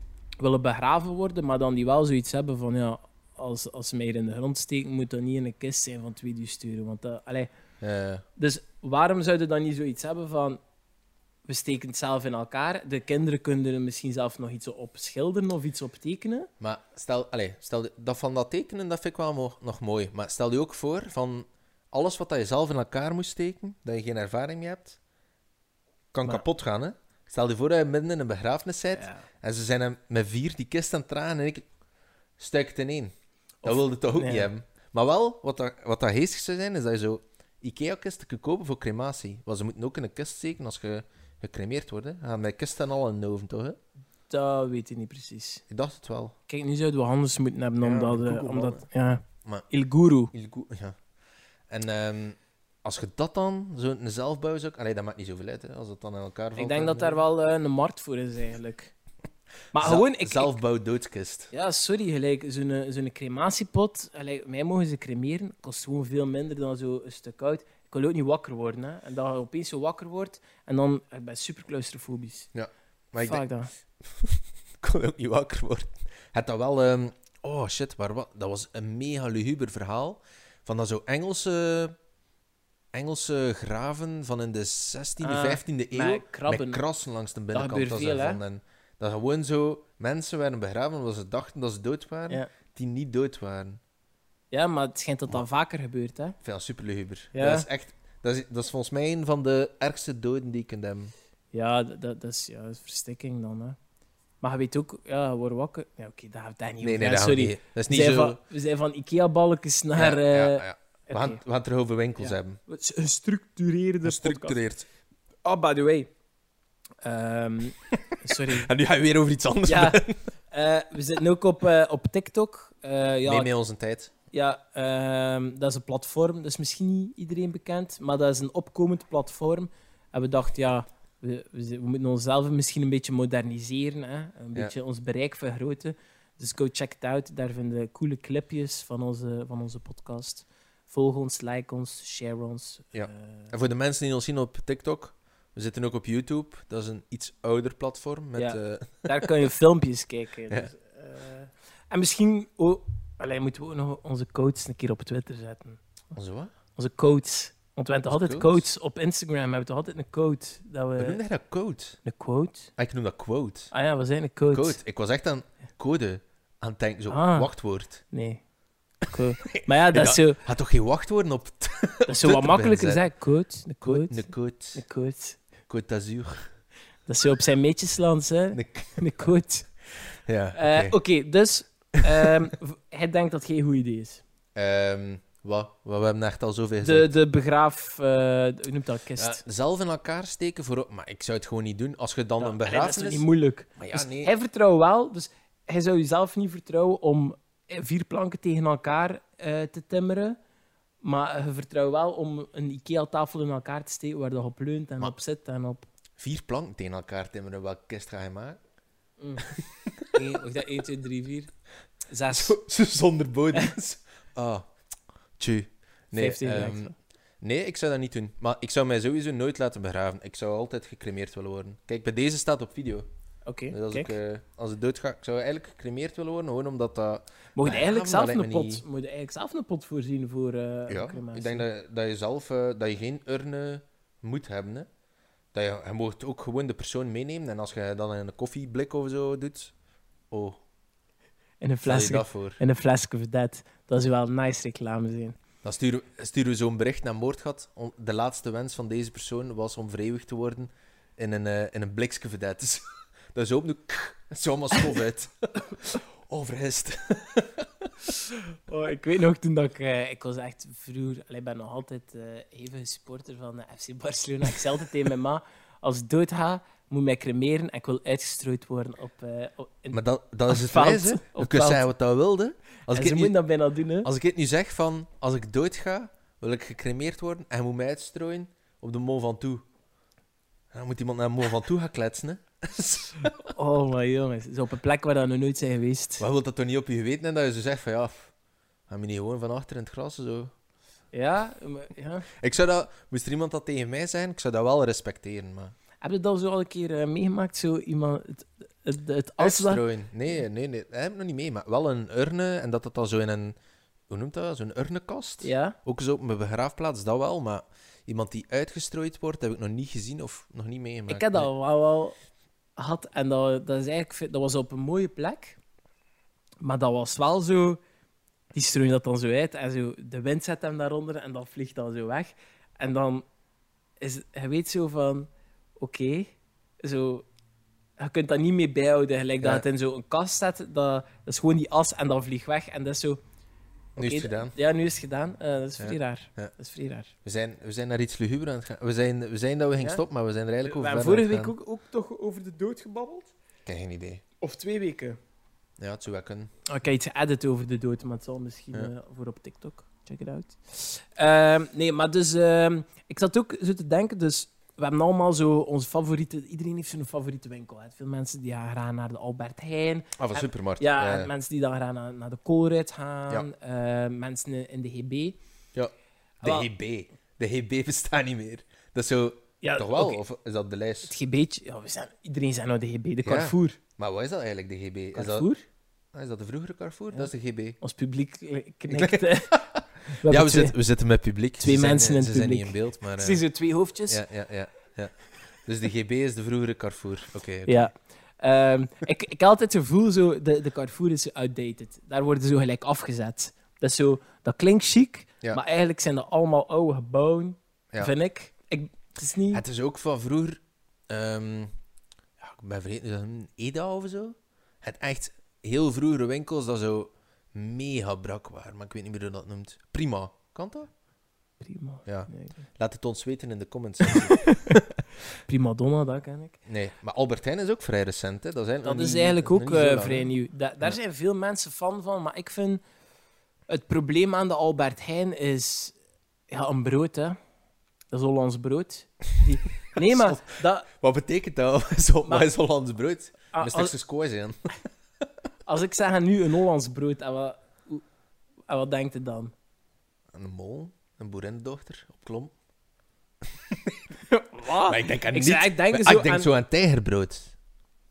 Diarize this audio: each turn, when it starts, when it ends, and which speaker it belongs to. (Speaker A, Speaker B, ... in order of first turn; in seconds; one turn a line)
Speaker A: 0.4-7.5
Speaker B: 7.8-8.2
Speaker A: 8.4-10.6
Speaker A: 11.5-16.5
Speaker B: 16.6-25.0
Speaker B: 26.1-31.6
Speaker A: 28.9-29.2
Speaker B: 32.4-33.1
Speaker A: 33.6-34.5
Speaker B: 33.6-43.8
Speaker A: 44.3-45.6
Speaker B: 45.7-46.3
Speaker A: 46.5-50.3
Speaker B: 47.8-48.8
Speaker B: 50.3-51.0
Speaker B: 51.7-57.2
Speaker A: 56.6-58.9
Speaker A: 59.7-60.6
Speaker B: 59.8-61.5
Speaker A: 61.5-72.5
Speaker B: 72.5-73.4
Speaker A: 73.2-73.7
Speaker B: 74.0-81.9
Speaker B: 82.9-93.8
Speaker A: 85.2-86.8
Speaker A: 87.5-88.4
Speaker A: 94.5-96.4
Speaker B: 96.4-101.1
Speaker A: 97.3-97.7
Speaker A: 101.5-103.8
Speaker A: 104.4-111.4
Speaker B: 106.8-108.4
Speaker B: 110.0-112.6
Speaker A: 112.2-114.6
Speaker B: 114.0-114.9
Speaker A: 115.4-116.1
Speaker A: 117.0-118.7
Speaker B: 118.3-120.2
Speaker A: 119.7-123.5
Speaker B: 123.2-124.1
Speaker A: 124.3-143.5
Speaker B: 142.9-149.3
Speaker A: 148.3-155.8
Speaker B: 156.1-156.5
Speaker A: 156.8-161.2
Speaker B: 158.1-158.6
Speaker B: 161.0-162.0
Speaker A: 162.0-162.7
Speaker B: 162.8-163.7
Speaker A: 163.7-164.8
Speaker B: 164.5-168.0
Speaker A: 167.1-167.5
Speaker A: 168.1-168.4
Speaker A: 169.1-170.4
Speaker B: 169.4-173.0
Speaker A: 172.1-175.4
Speaker B: 173.8-174.8
Speaker B: 175.7-176.5
Speaker A: 177.1-179.7
Speaker B: 178.5-179.0
Speaker B: 180.2-180.9
Speaker A: 180.5-184.2
Speaker B: 182.0-182.4
Speaker B: 184.5-187.1
Speaker A: 186.8-189.4
Speaker B: 189.2-193.2
Speaker A: 192.4-200.4
Speaker B: 193.8-194.3
Speaker A: 201.0-205.8
Speaker B: 206.2-208.6
Speaker A: 209.2-209.5
Speaker B: 209.4-210.2
Speaker A: 210.1-211.5
Speaker A: 212.1-212.6
Speaker B: 212.3-214.6
Speaker B: 215.4-223.0
Speaker A: 216.1-216.9
Speaker A: 223.4-224.1
Speaker B: 223.7-228.8
Speaker A: 227.5-231.6
Speaker B: 230.9-234.9
Speaker B: 235.5-239.7
Speaker B: 240.3-240.6
Speaker A: 241.6-245.3
Speaker B: 241.8-242.6
Speaker B: 245.6-257.9
Speaker A: 258.2-271.9
Speaker B: 269.9-273.4
Speaker A: 272.9-274.1
Speaker B: 274.0-279.6
Speaker B: 280.7-283.5
Speaker A: 283.5-286.2
Speaker B: 286.2-288.3
Speaker B: 288.9-290.5
Speaker A: 291.1-292.3
Speaker B: 292.3-295.7
Speaker A: 296.0-299.8
Speaker B: 299.4-303.6
Speaker B: 304.1-311.5
Speaker A: 305.4-305.8
Speaker A: 311.1-312.1
Speaker A: 312.8-315.6
Speaker A: 316.6-317.8
Speaker A: 318.5-323.2
Speaker A: 324.0-327.3
Speaker A: 328.0-333.2
Speaker B: 334.0-334.5
Speaker A: 334.0-337.1
Speaker B: 335.8-336.5
Speaker B: 337.2-341.5
Speaker A: 340.6-343.3
Speaker B: 343.6-344.2
Speaker A: 344.4-345.2
Speaker B: 345.8-346.5
Speaker A: 346.7-365.4
Speaker B: 360.2-361.3
Speaker B: 365.7-371.1
Speaker A: 366.4-366.7
Speaker A: 369.6-370.2
Speaker A: 371.1-373.8
Speaker B: 373.2-375.5
Speaker A: 375.1-375.6
Speaker B: 376.1-377.8
Speaker A: 377.8-380.7
Speaker B: 378.9-383.4
Speaker A: 381.6-384.2
Speaker B: 384.1-387.8
Speaker A: 387.6-399.6
Speaker B: 399.5-401.7
Speaker B: 402.4-410.9
Speaker A: 411.6-412.6
Speaker B: 412.1-415.0
Speaker A: 414.1-414.8
Speaker A: 415.4-416.6
Speaker B: 416.6-420.3
Speaker A: 418.8-422.8
Speaker A: 423.7-425.9
Speaker A: 426.5-427.4
Speaker A: 428.1-430.9
Speaker B: 430.0-434.7
Speaker A: 433.5-433.9
Speaker A: 435.6-438.0
Speaker A: 438.7-439.5
Speaker B: 440.3-442.5
Speaker B: 443.4-444.0
Speaker A: 444.3-446.5
Speaker B: 444.9-447.5